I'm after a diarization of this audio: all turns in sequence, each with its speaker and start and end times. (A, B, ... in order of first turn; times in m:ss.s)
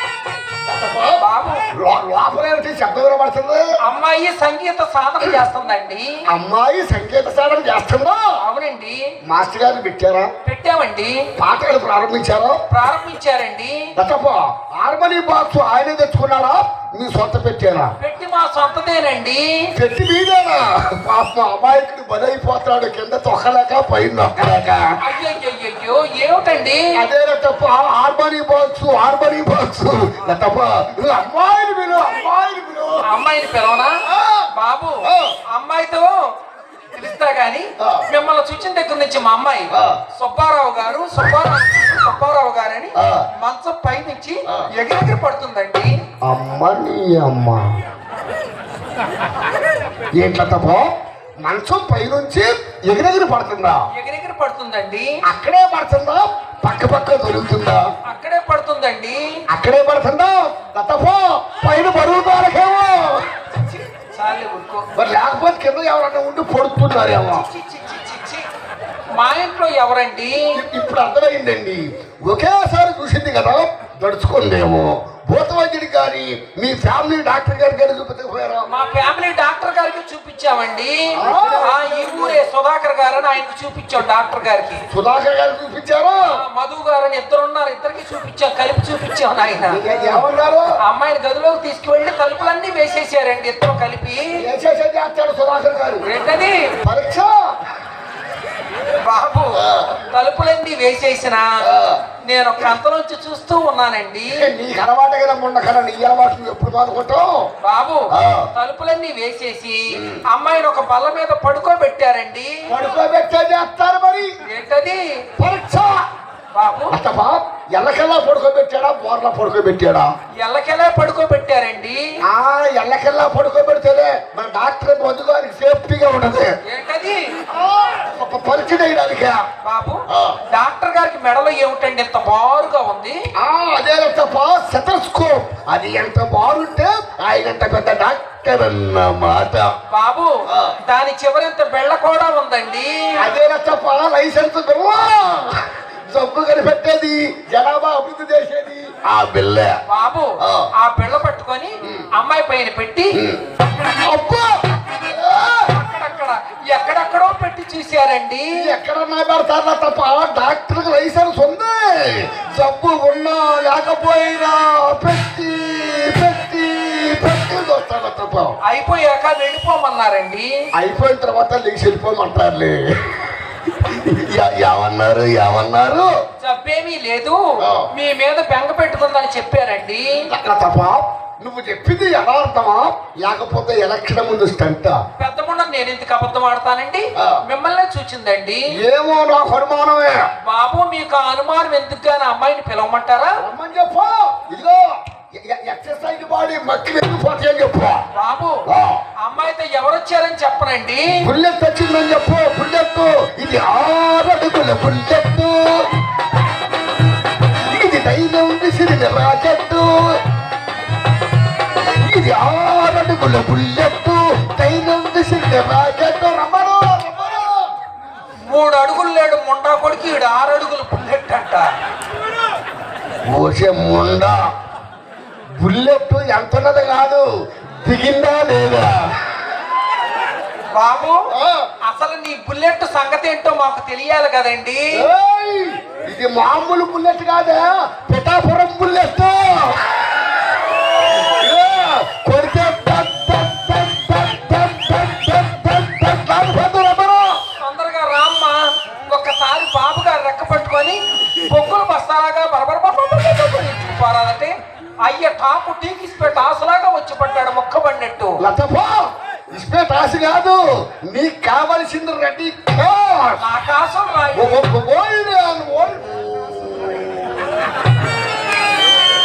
0:00.6-0:03.7 A
0:01.2-0:01.6 B
0:03.8-0:06.1 B
0:06.3-0:08.2 A
0:08.4-0:09.0 B
0:09.2-0:10.3 A
0:10.4-0:11.3 B
0:11.4-0:12.6 A
0:12.7-0:13.9 B
0:14.0-0:17.9 A
0:18.0-0:19.7 B
0:19.7-0:25.0 A
0:25.0-0:26.9 B
0:26.9-0:33.0 A
0:33.0-0:33.9 B
0:34.0-0:34.5 A
0:34.5-0:36.2 B
0:35.0-0:35.4 A
0:36.9-0:45.9 B
0:37.8-0:38.1 A
0:39.7-0:40.0 A
0:43.0-0:43.2 A
0:46.2-0:47.7 A
0:50.2-0:53.8 A
0:53.9-0:55.1 B
0:55.3-0:57.8 A
0:58.1-0:59.3 B
0:59.5-1:03.2 A
1:03.4-1:04.8 B
1:05.0-1:07.4 A
1:07.3-1:08.4 B
1:09.2-1:10.5 B
1:10.5-1:18.7 A
1:18.7-1:24.8 B
1:21.2-1:22.4 A
1:24.9-1:26.3 A
1:26.3-1:29.8 B
1:29.7-1:30.7 A
1:30.8-1:34.3 B
1:34.4-1:36.1 A
1:36.0-1:36.6 B
1:36.8-1:37.6 A
1:39.1-1:41.5 B
1:39.6-1:40.0 A
1:41.6-1:42.0 A
1:42.2-1:44.4 B
1:44.3-1:47.4 A
1:47.6-1:52.5 B
1:48.1-1:48.5 A
1:49.9-1:50.2 A
1:52.7-1:54.4 A
1:54.4-1:55.0 B
1:55.4-1:56.1 A
1:56.5-1:57.0 B
1:56.9-2:00.1 A
2:00.4-2:02.0 B
2:02.2-2:06.5 A
2:06.7-2:07.2 B
2:07.5-2:09.4 A
2:09.6-2:13.2 B
2:10.1-2:10.4 A
2:13.4-2:19.7 A
2:19.9-2:23.1 B
2:20.5-2:20.8 A
2:23.2-2:29.7 A
2:29.9-2:33.2 B
2:30.4-2:30.7 A
2:31.8-2:32.1 A
2:33.1-2:33.4 A
2:34.0-2:35.7 A
2:35.7-2:38.5 B
2:38.5-2:48.6 A
2:48.6-2:50.5 B
2:50.8-2:56.1 A
2:56.4-3:00.2 B
2:57.6-2:57.9 A
3:00.3-3:05.0 A
3:05.2-3:08.7 B
3:08.8-3:10.2 A
3:10.4-3:13.4 B
3:13.4-3:18.0 A
3:18.1-3:18.6 B
3:18.7-3:19.0 A
3:19.2-3:21.2 B
3:21.1-3:25.9 A
3:27.6-3:30.2 A
3:31.8-3:37.7 A
3:38.4-3:41.7 B
3:43.3-3:44.4 A
3:45.6-3:49.5 A
3:50.8-3:51.2 B
3:51.3-3:51.7 A
3:51.9-3:55.0 B
3:54.9-4:00.1 A
4:00.9-4:07.4 A
4:07.6-4:18.4 B
4:18.4-4:23.4 A
4:23.4-4:24.5 B
4:24.3-4:27.5 A